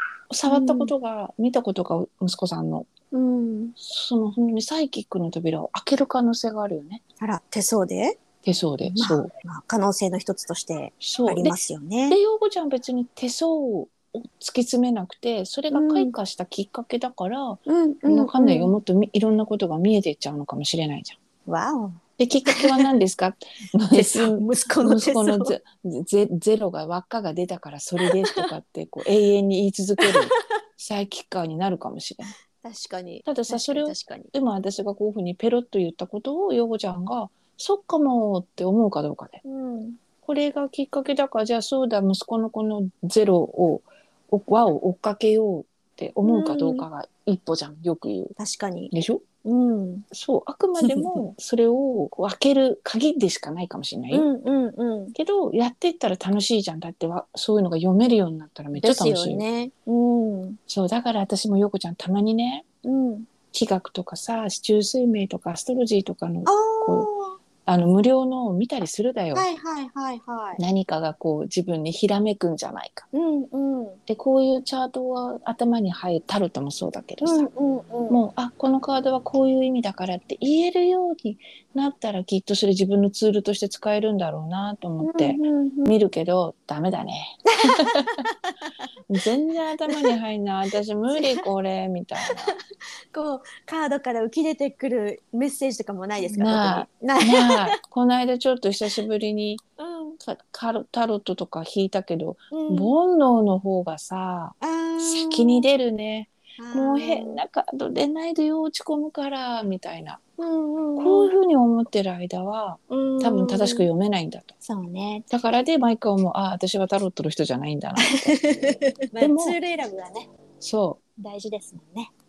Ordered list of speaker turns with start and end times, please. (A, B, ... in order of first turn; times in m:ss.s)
0:00.3-0:02.9 A
0:00.5-0:00.9 B
0:03.1-0:03.8 B
0:03.8-0:07.0 A
0:07.2-0:08.2 B
0:08.4-0:09.3 A
0:08.8-0:12.2 B
0:11.0-0:21.2 A
0:15.7-0:16.2 B
0:17.7-0:18.7 B
0:21.5-0:22.9 B
0:22.2-0:32.4 A
0:23.9-0:25.6 B
0:28.0-0:28.5 B
0:30.0-0:30.4 B
0:32.6-0:34.3 B
0:33.2-0:39.4 A
0:39.4-0:40.0 B
0:40.2-0:48.4 A
0:46.2-0:46.8 B
0:48.4-0:48.9 B
0:48.9-0:49.2 A
0:49.4-0:50.1 B
0:50.1-0:54.3 A
0:50.8-0:51.2 B
0:54.1-0:55.2 B
0:55.2-0:59.4 A
0:58.8-1:00.6 B
1:00.7-1:02.6 A
1:02.8-1:03.3 B
1:03.5-1:07.1 A
1:06.5-1:07.4 B
1:07.6-1:09.5 A
1:09.3-1:10.6 B
1:10.6-1:13.1 A
1:13.1-1:14.0 B
1:14.1-1:17.5 A
1:17.2-1:18.2 B
1:18.1-1:28.2 A
1:25.0-1:25.9 B
1:27.6-1:28.9 B
1:29.1-1:32.5 A
1:29.9-1:30.2 B
1:31.1-1:31.5 B
1:33.1-1:37.8 B
1:36.2-1:39.6 A
1:39.8-1:40.2 B
1:40.2-1:50.2 A
1:42.5-1:42.9 B
1:44.6-1:45.7 B
1:46.6-1:47.4 B
1:50.4-1:51.3 B
1:51.0-1:54.5 A
1:52.9-1:53.9 B
1:54.6-1:55.3 B
1:55.3-1:58.4 A
1:58.0-2:00.3 B
1:59.2-1:59.6 A
2:00.6-2:01.0 A
2:01.2-2:02.1 B